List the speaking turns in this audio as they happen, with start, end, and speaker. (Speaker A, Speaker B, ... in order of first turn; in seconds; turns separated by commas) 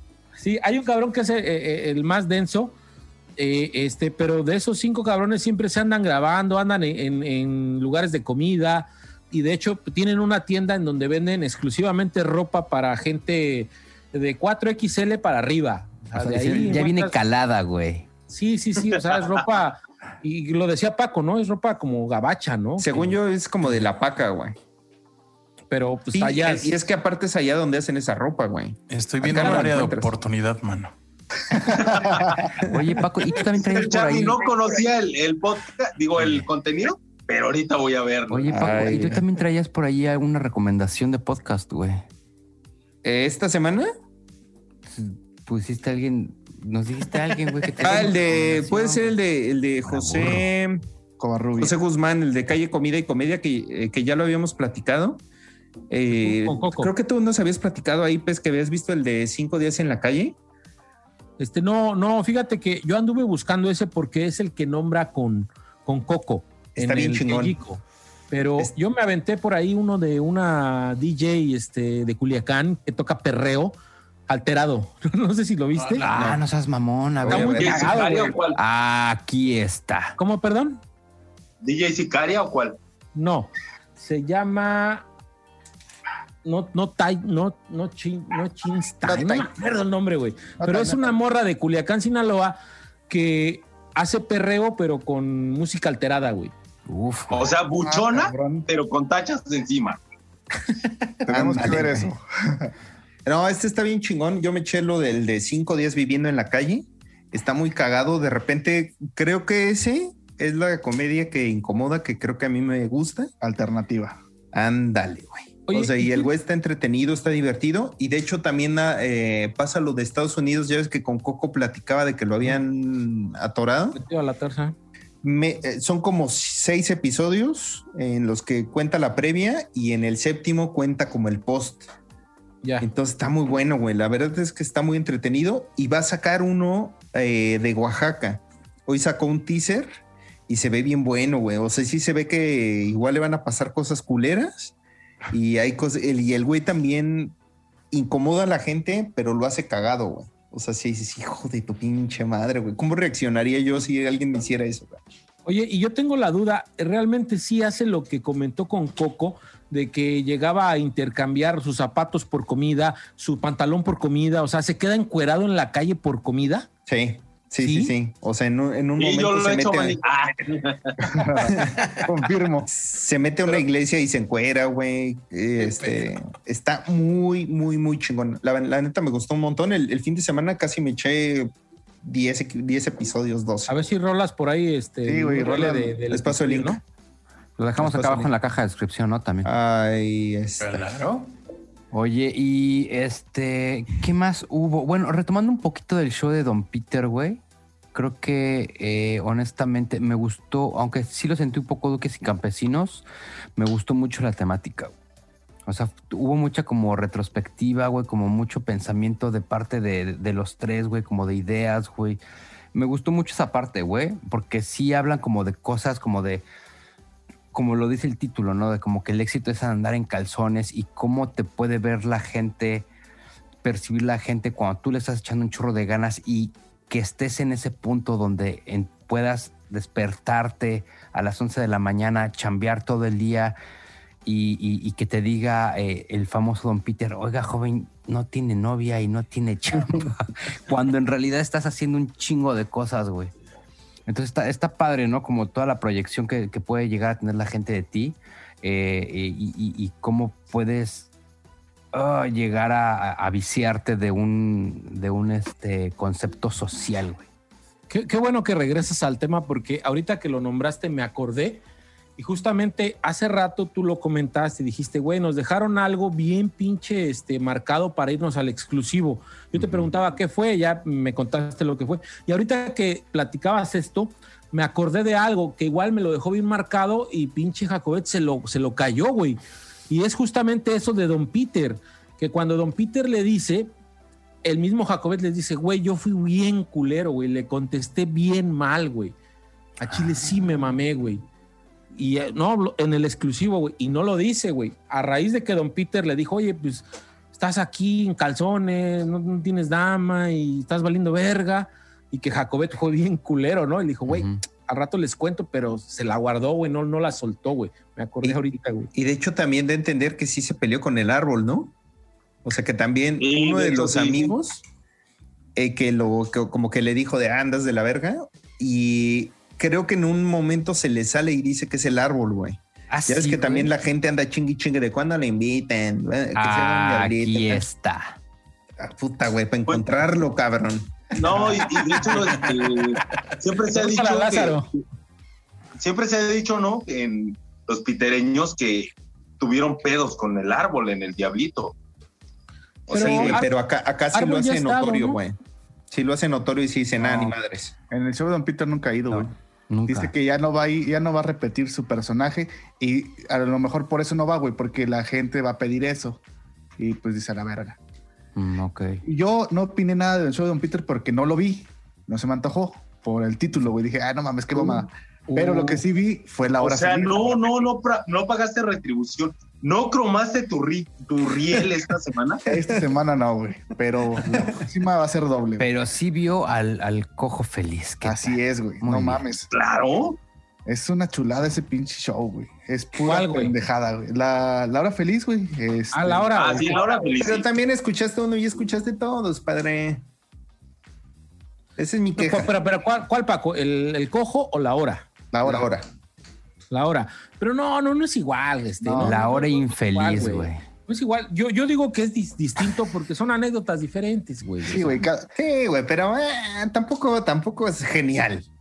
Speaker A: 0.4-2.7, Speaker A: 3.4-17.2, Speaker B: 16.1-18.1, Speaker A: 18.3-23.1, Speaker C: 22.8-24.6, Speaker A: 25.7-26.7, Speaker C: 26.1-30.1, Speaker D: 28.9-30.9, Speaker E: 31.6-32.0, Speaker F: 31.7-32.5, Speaker B: 32.7-34.4, Speaker F: 33.4-39.1, Speaker B: 36.2-36.5, Speaker B: 38.3-42.0, Speaker C: 38.5-39.2, Speaker C: 43.0-43.9, Speaker B: 44.9-49.1, Speaker C: 47.8-50.8, Speaker B: 49.9-50.5, Speaker E: 51.2-51.7, Speaker C: 51.6-55.2, Speaker C: 55.9-60.4, Speaker A: 56.1-56.9, Speaker A: 61.4-73.8, Speaker C: 66.8-67.6, Speaker A: 74.3-76.1, Speaker D: 75.8-76.4, Speaker B: 76.0-80.2, Speaker C: 76.1-76.4, Speaker C: 77.2-77.8, Speaker A: 77.3-78.4, Speaker F: 77.6-78.6, Speaker A: 80.2-80.8, Speaker F: 81.6-82.8, Speaker A: 83.2-85.1, Speaker A: 86.5-92.6, Speaker E: 89.1-89.4, Speaker E: 90.6-91.1, Speaker A: 93.1-96.5, Speaker B: 96.9-97.5, Speaker F: 97.3-100.0, Speaker E: 97.8-98.7, Speaker E: 101.3-102.7, Speaker C: 101.3-102.0, Speaker B: 101.6-102.1, Speaker C: 103.3-113.3, Speaker E: 113.4-114.2, Speaker C: 114.5-124.0, Speaker A: 115.7-116.3, Speaker A: 123.9-124.8, Speaker C: 125.2-131.9, Speaker A: 132.6-132.9, Speaker C: 132.8-139.9, Speaker C: 140.5-144.8, Speaker C: 145.3-147.3, Speaker C: 147.9-155.0, Speaker A: 155.5-166.7, Speaker C: 166.9-170.0, Speaker A: 167.6-167.9, Speaker F: 169.0-171.2, Speaker E: 171.0-172.7, Speaker C: 171.5-171.8, Speaker C: 172.7-181.5, Speaker D: 175.6-176.1, Speaker C: 182.0-183.8, Speaker A: 183.7-186.8, Speaker E: 185.1-186.0, Speaker C: 186.1-186.8, Speaker B: 187.6-189.5, Speaker C: 187.8-188.3, Speaker C: 189.4-190.9, Speaker D: 190.6-191.3, Speaker B: 191.9-197.4, Speaker B: 197.9-203.1, Speaker B: 203.6-204.9, Speaker B: 205.7-212.2, Speaker B: 212.7-216.4, Speaker B: 217.5-222.9, Speaker B: 223.6-233.6, Speaker B: 234.2-243.3, Speaker B: 244.1-251.1, Speaker B: 251.9-257.2, Speaker A: 257.9-261.6, Speaker A: 262.2-283.7, Speaker B: 269.6-269.9, Speaker A: 284.4-289.1, Speaker A: 289.8-291.2, Speaker B: 289.9-290.3, Speaker A: 291.9-308.9, Speaker B: 304.1-304.4, Speaker C: 308.9-311.7, Speaker C: 312.4-314.6, Speaker F: 313.2-314.4, Speaker C: 315.6-327.7, Speaker B: 322.9-323.7, Speaker B: 326.4-328.2, Speaker C: 328.8-331.0, Speaker F: 329.7-330.0, Speaker F: 331.1-334.8, Speaker D: 331.9-333.3, Speaker A: 333.7-334.7, Speaker F: 335.8-341.8, Speaker A: 342.9-343.5, Speaker F: 342.9-343.4, Speaker C: 342.9-345.4, Speaker A: 344.1-345.2, Speaker C: 345.9-347.7, Speaker E: 347.9-349.3, Speaker B: 349.1-350.1, Speaker E: 349.9-356.2, Speaker E: 356.8-357.8, Speaker B: 358.4-359.0, Speaker E: 359.0-367.4, Speaker A: 364.6-365.8, Speaker F: 366.5-372.4, Speaker E: 372.5-375.7, Speaker B: 375.6-379.2, Speaker E: 378.0-379.5, Speaker F: 379.5-380.2, Speaker E: 380.7-386.4, Speaker A: 383.0-383.6, Speaker A: 385.9-386.8, Speaker F: 386.4-387.5, Speaker C: 387.2-390.1, Speaker C: 391.8-392.5, Speaker A: 392.2-395.1, Speaker E: 395.3-395.7, Speaker C: 395.4-395.9, Speaker A: 396.7-405.0, Speaker E: 398.8-399.2, Speaker B: 399.0-400.6, Speaker E: 404.6-405.3, Speaker C: 405.4-408.5